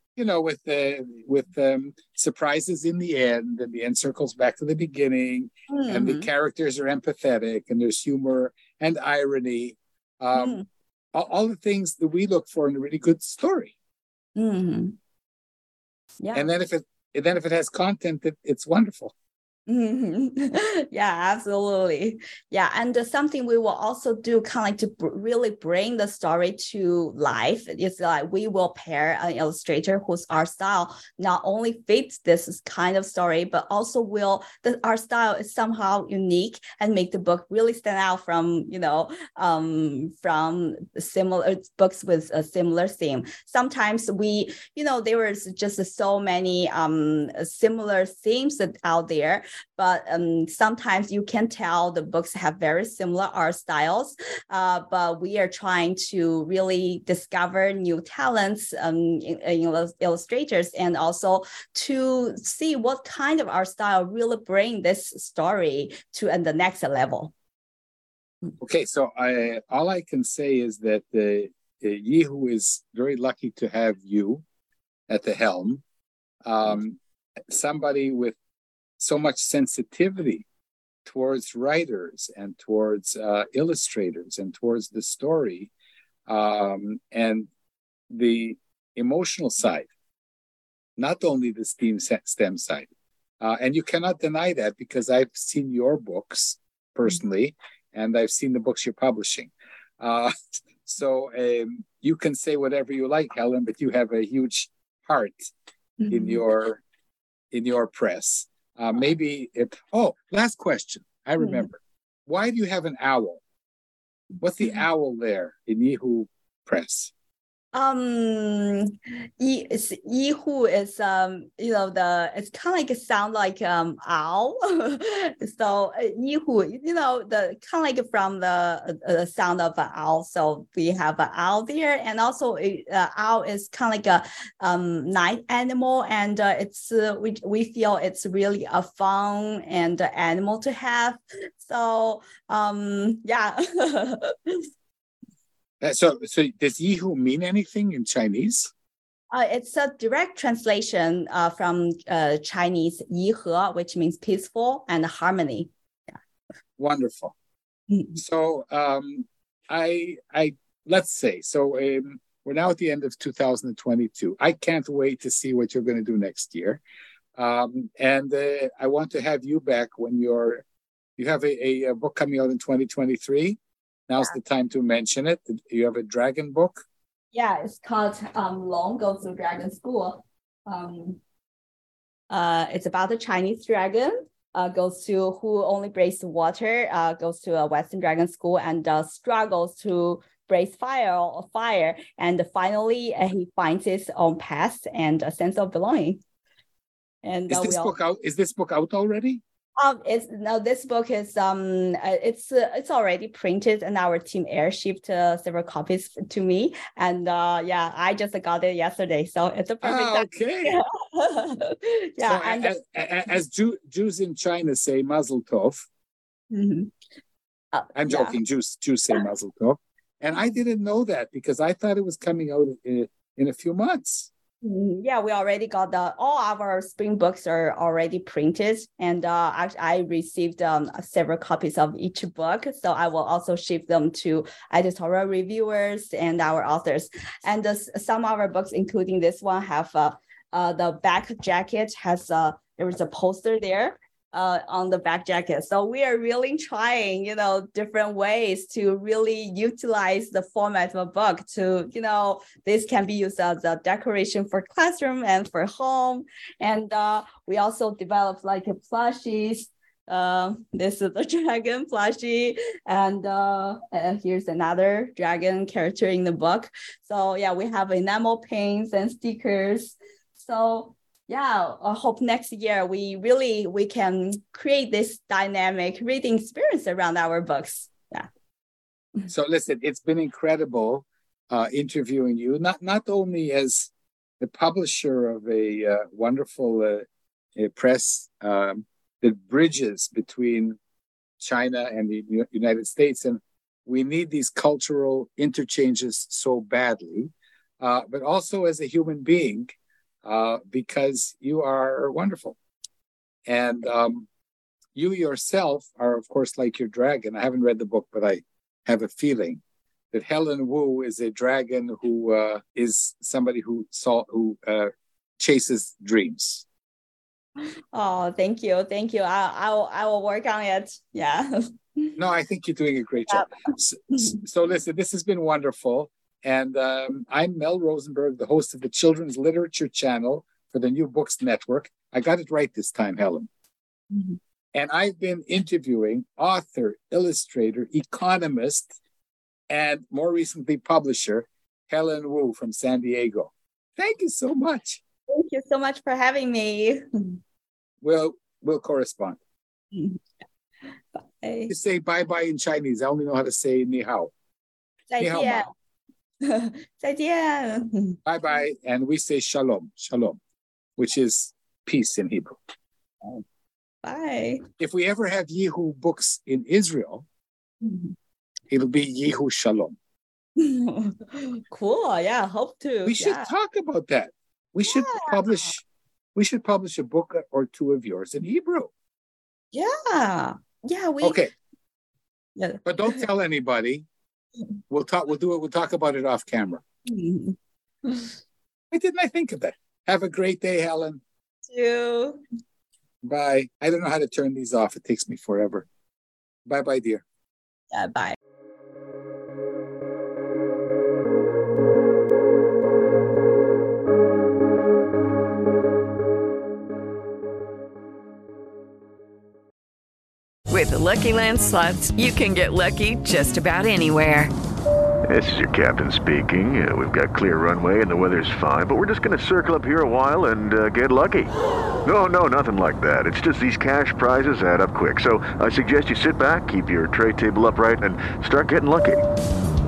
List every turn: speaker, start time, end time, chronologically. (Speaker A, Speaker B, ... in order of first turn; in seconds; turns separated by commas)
Speaker A: 0.1-10.6, Speaker B: 5.7-6.3, Speaker B: 10.3-10.6, Speaker A: 11.1-13.7, Speaker B: 14.3-14.9, Speaker B: 16.2-16.5, Speaker A: 16.3-19.1, Speaker B: 19.7-67.3, Speaker A: 68.6-74.4, Speaker A: 75.1-75.8, Speaker A: 76.4-77.0, Speaker A: 77.5-78.3, Speaker A: 79.0-80.4, Speaker A: 81.0-85.7, Speaker A: 86.3-87.5, Speaker A: 88.1-89.9, Speaker A: 91.0-92.9, Speaker A: 93.4-105.5, Speaker B: 106.0-106.3, Speaker A: 106.1-106.8, Speaker A: 107.5-113.4, Speaker A: 114.4-117.1, Speaker B: 117.7-144.7, Speaker A: 145.8-148.7, Speaker B: 149.3-155.7, Speaker A: 156.8-157.3, Speaker A: 158.1-166.8, Speaker A: 167.3-170.6, Speaker A: 171.2-176.8, Speaker B: 177.3-181.2, Speaker B: 182.3-196.2, Speaker B: 197.2-197.9, Speaker A: 197.5-199.4, Speaker B: 199.8-212.7, Speaker A: 209.8-210.8, Speaker A: 212.2-215.8, Speaker B: 216.5-216.9, Speaker B: 217.7-218.4, Speaker A: 217.9-224.3, Speaker B: 224.6-278.3, Speaker A: 279.3-290.8, Speaker A: 291.4-302.6, Speaker A: 303.4-304.3, Speaker A: 304.9-309.6, Speaker A: 310.1-316.6, Speaker B: 317.9-322.1, Speaker A: 322.1-333.5, Speaker A: 334.7-338.9, Speaker A: 339.7-345.0, Speaker B: 345.3-347.4, Speaker A: 348.0-349.4, Speaker B: 349.9-350.2, Speaker B: 351.4-351.7, Speaker A: 351.7-354.3, Speaker B: 355.1-355.7, Speaker A: 355.2-355.6, Speaker B: 356.4-358.2, Speaker A: 358.2-360.4, Speaker A: 361.0-362.6, Speaker B: 364.0-364.6, Speaker A: 364.8-367.2, Speaker B: 367.8-368.1, Speaker A: 368.7-369.9, Speaker B: 370.6-373.5, Speaker A: 373.0-375.8, Speaker B: 374.9-375.4, Speaker A: 376.3-378.9, Speaker B: 379.7-381.4, Speaker A: 381.2-381.5, Speaker B: 382.6-382.8, Speaker A: 382.8-384.1, Speaker A: 384.9-386.8, Speaker B: 387.1-388.3, Speaker A: 388.9-391.2, Speaker B: 391.7-392.4, Speaker A: 393.2-395.9, Speaker A: 396.6-397.2, Speaker B: 397.9-398.4, Speaker C: 410.7-414.5, Speaker D: 415.3-421.5, Speaker D: 422.0-429.3